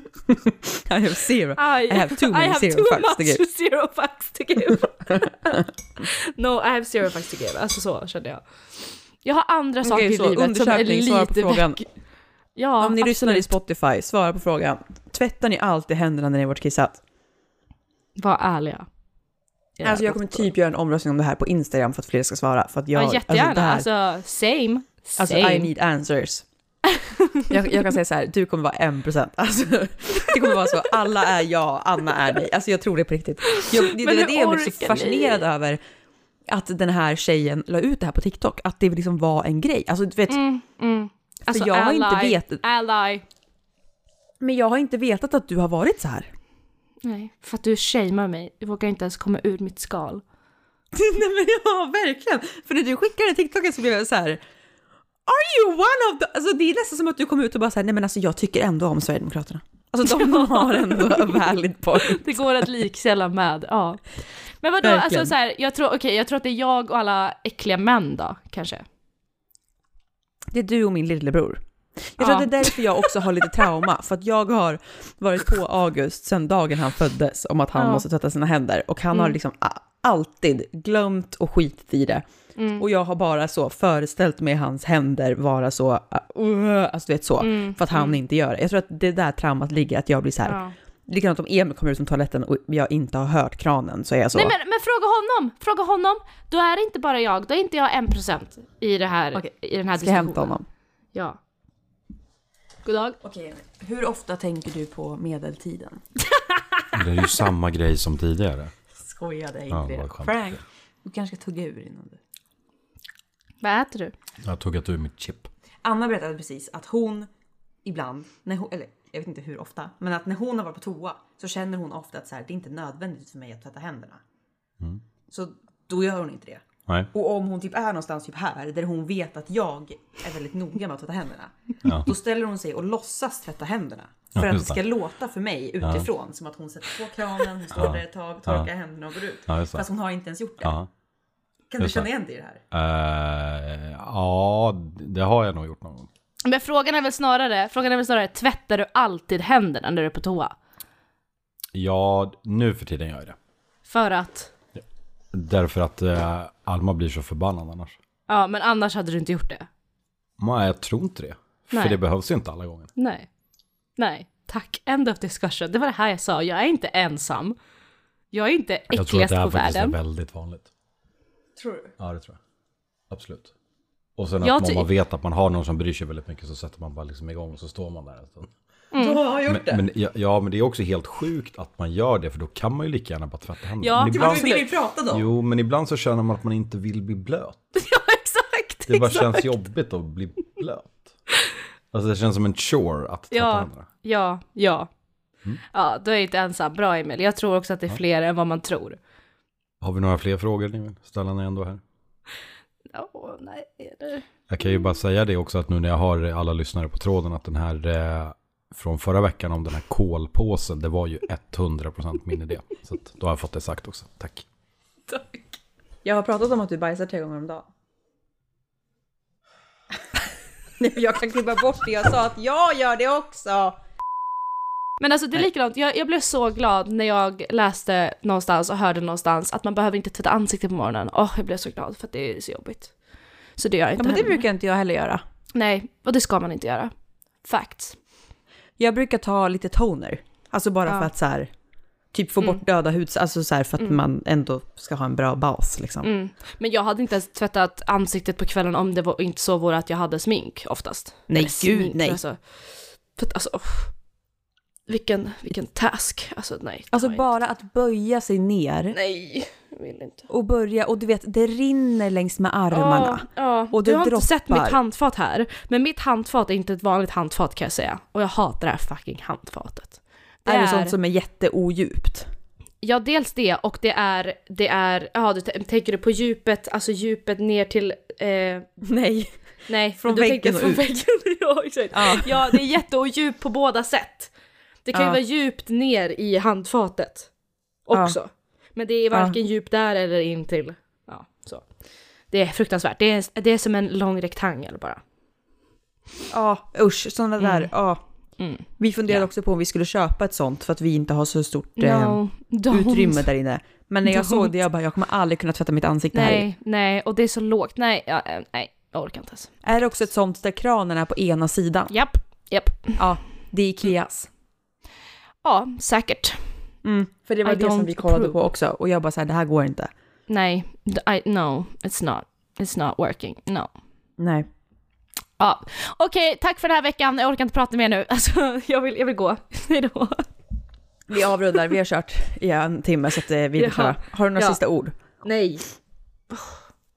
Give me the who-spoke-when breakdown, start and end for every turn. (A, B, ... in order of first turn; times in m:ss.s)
0:00.3-0:03.4 A
0:01.6-0:08.4 B
0:09.2-0:11.9 B
0:09.8-0:11.8 A
0:12.6-0:13.5 B
0:12.8-0:17.0 A
0:18.2-0:18.9 B
0:19.8-0:20.5 B
0:19.8-0:23.9 A
0:22.9-0:25.7 B
0:25.2-0:26.4 A
0:27.0-0:27.5 B
0:27.5-0:35.8 A
0:30.2-0:30.9 B
0:33.5-0:35.4 B
0:36.5-0:40.4 A
0:40.3-0:43.2 B
0:41.5-0:42.6 A
0:44.4-0:46.3 A
0:47.0-0:50.2 B
0:50.9-0:54.4 A
0:55.2-1:02.6 A
1:00.0-1:01.4 B
1:01.9-1:08.8 B
1:04.8-1:05.3 A
1:10.5-1:22.2 A
1:12.2-1:12.8 B
1:17.8-1:18.0 B
1:22.6-1:22.8 B
1:22.8-1:34.5 A
1:27.4-1:28.2 B
1:30.4-1:30.7 B
1:34.3-1:40.6 B
1:39.3-1:40.6 A
1:42.8-1:43.2 B
1:43.2-1:46.0 A
1:46.9-1:48.7 C
1:49.0-1:52.2 A
1:49.7-1:50.6 C
1:53.6-1:54.1 B
1:54.4-1:55.5 C
1:55.8-1:57.3 A
1:57.8-2:04.2 A
2:05.3-2:20.7 A
2:11.8-2:12.1 C
2:14.3-2:14.8 C
2:17.7-2:18.7 C
2:19.5-2:19.9 C
2:20.6-2:20.9 C
2:21.7-2:22.6 A
2:21.8-2:22.1 C
2:22.7-2:26.1 C
2:26.4-2:30.6 B
2:31.7-2:33.4 C
2:33.9-2:34.5 B
2:35.3-2:38.0 C
2:38.3-2:39.7 B
2:40.4-2:42.9 C
2:41.7-2:42.0 B
2:43.0-2:43.3 B
2:44.0-2:47.6 B
2:48.3-2:50.0 B
2:48.9-2:50.7 C
2:51.6-2:51.9 A
2:52.0-2:52.4 C
2:53.1-2:53.5 C
2:54.2-2:58.5 C
2:54.4-2:54.9 B
2:58.9-2:59.2 B
2:59.0-2:59.8 A
2:59.5-3:07.6 C
3:03.8-3:04.6 B
3:04.1-3:05.2 A
3:07.7-3:09.6 B
3:08.9-3:11.1 C
3:11.9-3:13.9 C
3:13.3-3:14.9 B
3:15.7-3:19.0 B
3:19.8-3:21.8 C
3:22.9-3:24.8 B
3:24.5-3:34.4 C
3:35.1-3:35.6 B
3:36.0-3:37.6 A
3:40.8-3:43.8 A
3:45.0-3:52.9 B
3:53.6-3:54.4 B
3:54.0-3:55.2 A
3:55.6-3:58.0 B
3:58.8-4:01.5 A
4:02.1-4:06.1 A
4:06.0-4:13.9 B
4:11.3-4:12.2 A
4:14.9-4:17.3 B
4:16.9-4:19.0 A
4:18.9-4:20.3 B
4:20.3-4:24.8 A
4:22.7-4:30.9 B
4:30.4-4:32.3 A
4:32.8-4:38.7 B
4:38.8-4:39.4 A
4:39.7-4:44.3 B
4:40.0-4:40.9 A
4:41.9-4:42.6 A
4:44.8-4:47.3 B
4:44.9-4:45.2 A
4:47.9-4:51.7 B
4:47.9-4:48.2 A
4:49.1-4:49.4 A
4:52.3-4:55.0 B
4:56.3-4:58.0 A
4:57.4-4:57.7 B
4:58.4-4:59.3 B
4:58.8-5:06.4 A
5:01.8-5:03.2 B
5:04.0-5:04.5 B
5:06.1-5:09.6 B
5:09.6-5:11.9 A
5:11.9-5:13.0 B
5:13.0-5:14.3 A
5:15.4-5:16.5 B
5:16.8-5:19.9 A
5:17.4-5:18.4 B
5:20.3-5:23.7 B
5:24.2-5:24.5 A
5:25.4-5:30.3 B
5:31.1-5:34.9 A
5:33.6-5:34.6 B
5:35.2-5:35.6 B